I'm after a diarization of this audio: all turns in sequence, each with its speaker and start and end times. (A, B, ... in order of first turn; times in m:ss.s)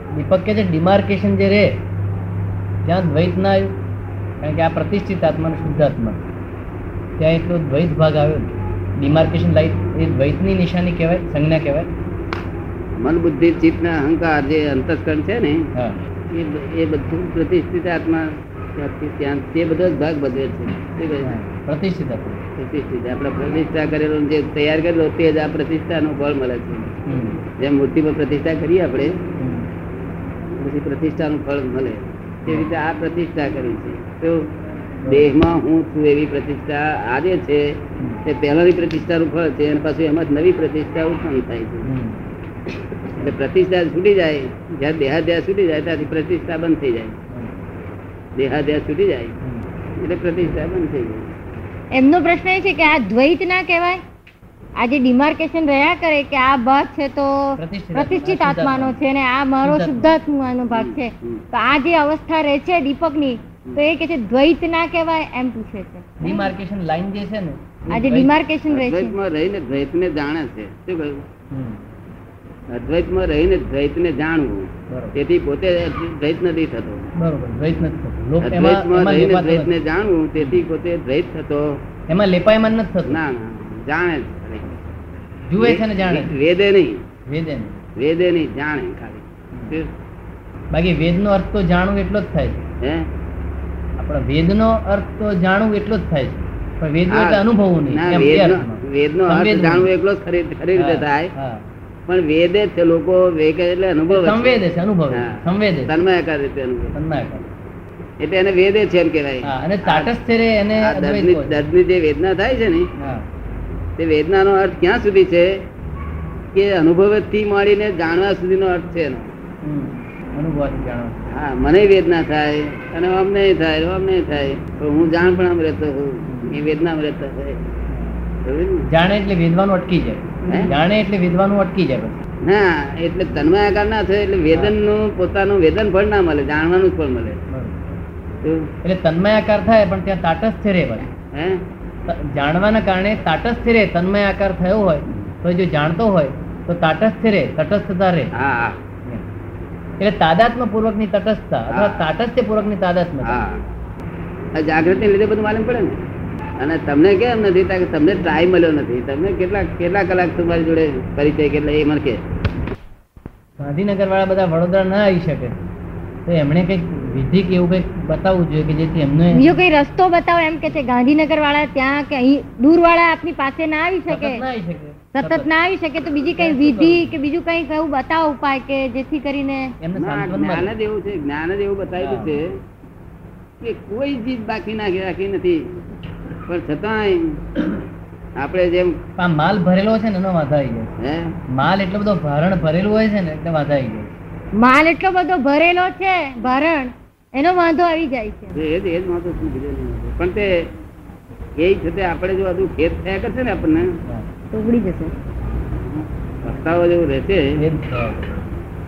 0:00.2-0:01.7 A
0:02.8-0:03.7 A
0:04.4-0:06.2 A
0:07.2-0:11.9 A
0:13.0-0:15.7 B
0:16.3-0:21.3 B
0:21.2-0:22.4 A
0:22.6-0:26.9 B
0:27.1-0:27.4 A
0:27.6-0:29.2 B
0:29.4-0:29.7 A
0:30.6-0:34.5 B
0:35.1-0:41.9 B
0:41.8-0:42.2 A
0:43.1-0:47.2 B
0:48.4-0:49.3 B
0:50.0-0:51.3 B
0:51.9-0:54.0 C
0:54.8-1:06.5 C
0:57.6-0:59.0 A
0:59.6-1:00.2 A
1:00.7-1:01.4 B
1:06.2-1:08.3 A
1:07.9-1:09.2 C
1:08.7-1:11.2 B
1:11.5-1:11.8 A
1:12.7-1:17.0 B
1:14.9-1:15.2 A
1:17.2-1:19.7 A
1:18.4-1:21.7 B
1:20.4-1:20.6 A
1:22.1-1:23.2 A
1:23.1-1:24.9 B
1:25.5-1:26.3 A
1:25.6-1:27.0 B
1:27.3-1:27.8 A
1:28.0-1:29.9 B
1:29.6-1:29.8 A
1:30.7-1:32.6 A
1:34.0-1:39.9 A
1:37.1-1:41.3 B
1:40.8-1:41.6 A
1:42.1-1:44.6 B
1:44.1-1:46.0 A
1:45.1-1:47.0 B
1:46.9-1:47.5 A
1:48.2-1:50.1 B
1:49.4-1:51.6 A
1:50.8-1:52.9 B
1:53.0-1:53.2 A
1:54.0-1:55.5 B
1:56.5-1:59.2 B
1:59.6-2:01.3 A
2:01.3-2:07.6 B
2:06.3-2:06.6 A
2:07.9-2:08.2 A
2:08.5-2:08.9 B
2:08.9-2:12.2 A
2:10.5-2:10.7 B
2:12.4-2:17.4 B
2:17.5-2:17.8 A
2:18.4-2:18.7 B
2:18.8-2:21.1 A
2:21.3-2:21.6 B
2:22.1-2:28.3 A
2:28.4-2:28.8 B
2:30.0-2:33.4 A
2:31.7-2:32.1 B
2:33.2-2:33.6 B
2:34.6-2:36.0 B
2:36.6-2:42.2 B
2:43.6-2:45.6 A
2:46.3-2:49.5 A
2:49.4-2:54.4 C
2:54.1-2:55.5 A
2:55.2-2:59.7 C
2:56.3-2:57.1 A
2:59.8-3:00.7 A
3:00.0-3:02.6 B
3:02.0-3:02.4 A
3:03.6-3:05.6 B
3:06.5-3:07.4 B
3:08.4-3:08.9 B
3:09.2-3:10.9 A
3:11.0-3:11.3 B
3:11.5-3:14.1 A
3:14.6-3:18.6 C
3:18.5-3:20.5 B
3:21.6-3:24.0 B
3:24.5-3:25.2 C
3:25.9-3:27.5 B
3:27.6-3:28.4 A